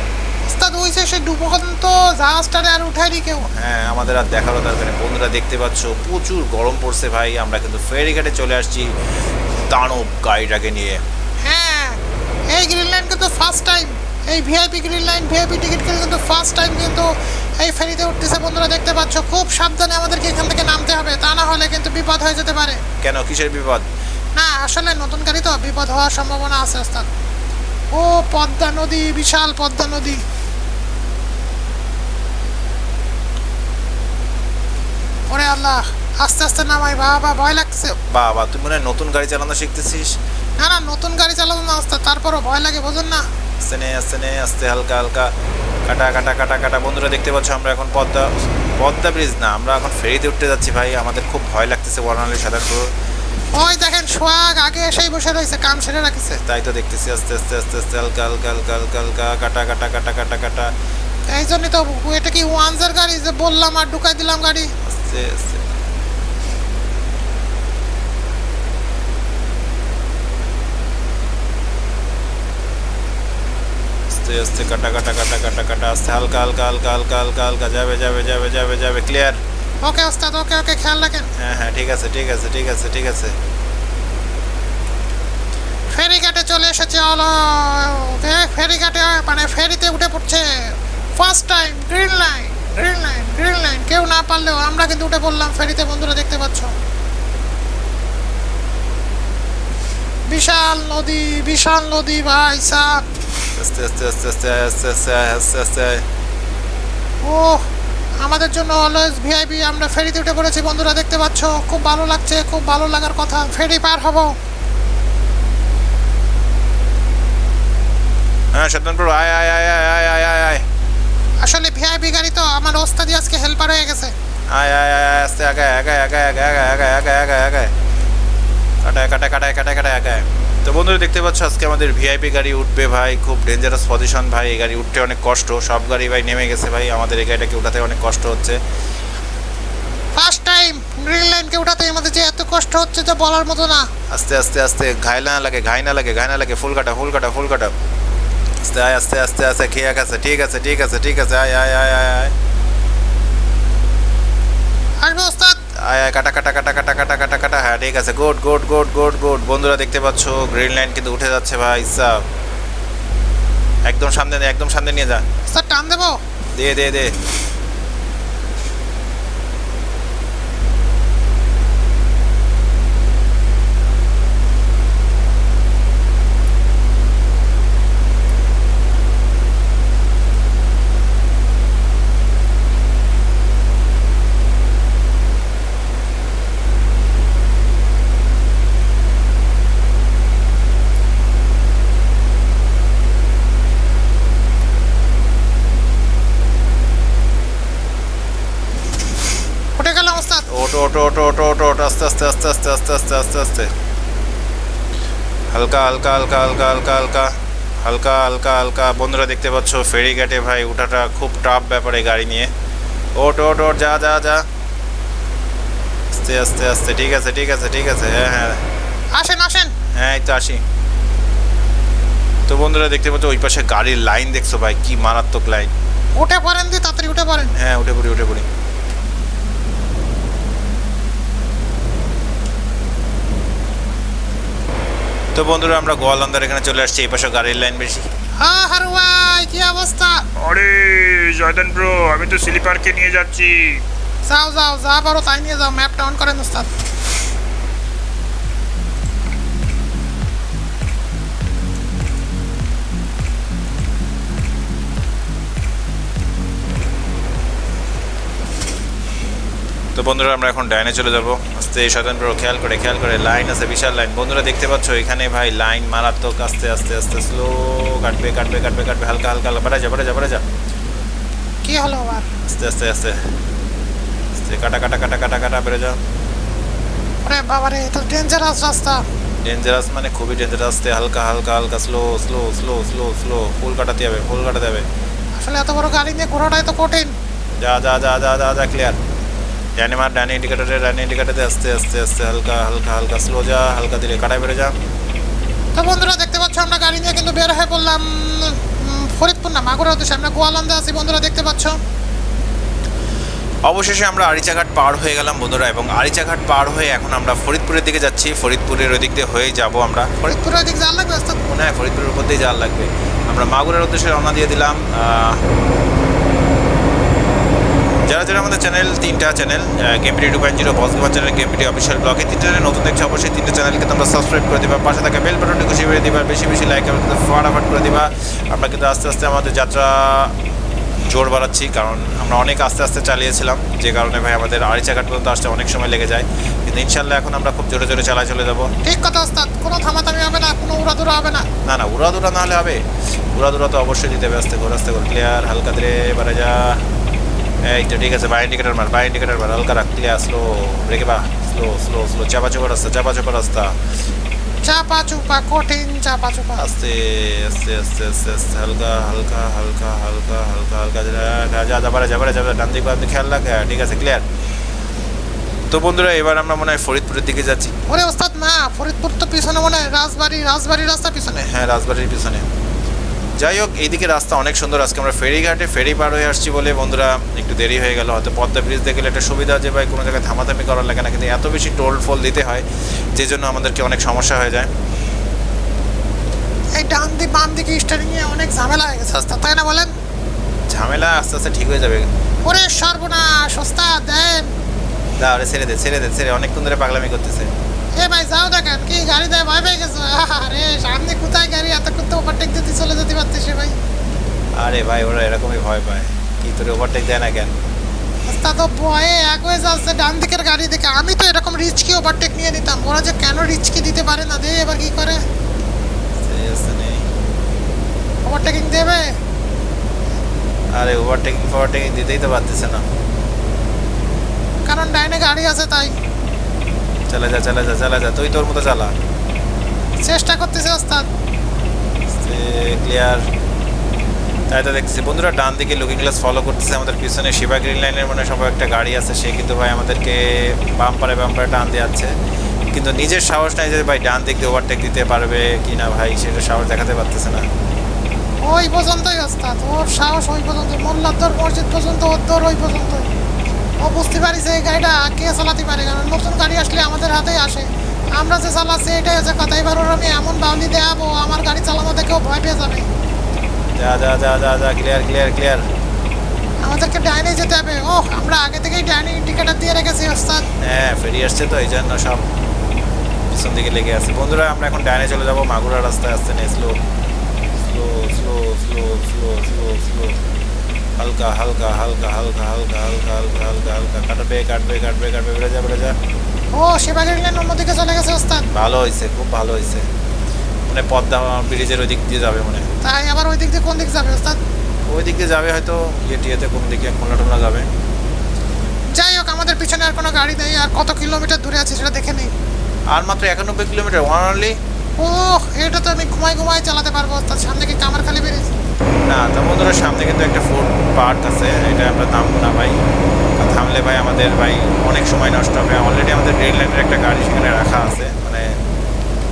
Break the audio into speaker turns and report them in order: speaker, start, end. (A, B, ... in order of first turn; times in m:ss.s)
0:00.4-0:03.5 A
0:03.5-0:08.9 B
0:09.5-0:11.0 B
0:11.4-0:22.8 A
0:23.0-0:23.9 B
0:24.3-0:27.1 A
0:27.9-0:30.2 A
0:35.3-0:38.0 A
0:38.1-0:40.2 B
0:40.6-0:43.2 A
0:43.6-0:45.3 B
0:45.9-0:52.9 B
0:53.5-0:56.4 A
0:56.4-1:00.7 B
1:01.3-1:04.7 A
1:04.8-1:05.6 B
1:14.1-1:19.4 B
1:19.8-1:21.3 A
1:21.4-1:23.3 B
1:25.9-1:36.7 A
1:40.3-1:43.0 A
1:43.6-1:46.0 B
1:47.2-1:47.7 A
1:48.2-1:54.4 A
1:58.5-2:00.6 B
2:01.4-2:04.1 A
2:04.5-2:07.7 B
2:08.8-2:18.6 B
2:20.1-2:23.9 A
2:24.1-2:27.7 B
2:28.6-2:32.3 B
2:35.0-2:35.6 A
2:35.8-2:42.2 B
2:43.9-2:45.2 B
2:45.5-2:46.2 A
2:46.6-2:47.1 B
3:19.8-3:20.5 A
3:20.5-3:23.7 B
3:25.5-3:32.5 B
3:33.2-3:34.4 B
3:36.1-3:38.6 B
3:39.1-3:39.8 A
3:39.9-3:40.6 B
3:42.5-3:45.7 B
3:46.1-3:47.5 A
3:47.5-3:48.5 B
3:55.3-3:58.1 B
3:58.4-4:00.2 A
4:00.4-4:03.8 C
4:04.2-4:06.7 A
4:20.0-4:30.4 B
4:31.6-4:32.3 A
4:32.5-4:33.3 B
4:34.4-4:36.0 B
4:37.2-4:39.0 A
4:39.4-4:44.8 B
4:45.4-4:47.1 A
4:47.6-4:49.0 B
4:49.8-4:54.7 B
4:55.8-5:01.8 A
5:03.6-5:10.1 B
5:10.2-5:11.5 A
5:11.5-5:15.4 B
5:18.1-5:30.4 B
5:31.1-5:38.7 B
5:38.8-5:41.5 A
5:41.6-5:46.8 B
5:47.6-5:53.8 B
5:54.6-5:56.6 A
5:56.6-6:04.2 B
6:05.7-6:07.8 B
6:07.9-6:11.5 A
6:11.3-6:12.4 B
6:13.4-6:24.7 B
6:26.8-6:29.9 A
6:30.7-6:32.1 B
6:32.4-6:34.5 A
6:35.2-6:37.5 B
6:38.0-6:43.8 A
6:44.6-6:47.5 B
6:48.2-6:55.2 A
6:56.2-6:57.1 B
6:58.2-6:59.1 A
7:00.8-7:02.8 B
7:04.6-7:05.9 A
7:07.1-7:08.9 B
7:10.0-7:11.1 A
7:12.1-7:13.2 B
7:14.5-7:22.1 B
7:22.7-7:27.5 B
7:28.4-7:33.1 A
7:33.8-7:42.9 A
7:43.8-7:45.6 B
7:46.6-7:50.5 A
7:50.6-7:52.2 B
7:53.3-7:56.8 B
7:57.6-8:00.2 B
8:01.0-8:06.0 B
8:06.5-8:08.5 A
8:08.5-8:09.8 B
8:10.7-8:12.7 B
8:12.8-8:14.4 A
8:14.8-8:17.7 B
8:18.9-8:22.3 A
8:22.9-8:24.6 B
8:25.0-8:28.5 A
8:29.1-8:32.8 B
8:33.4-8:38.6 B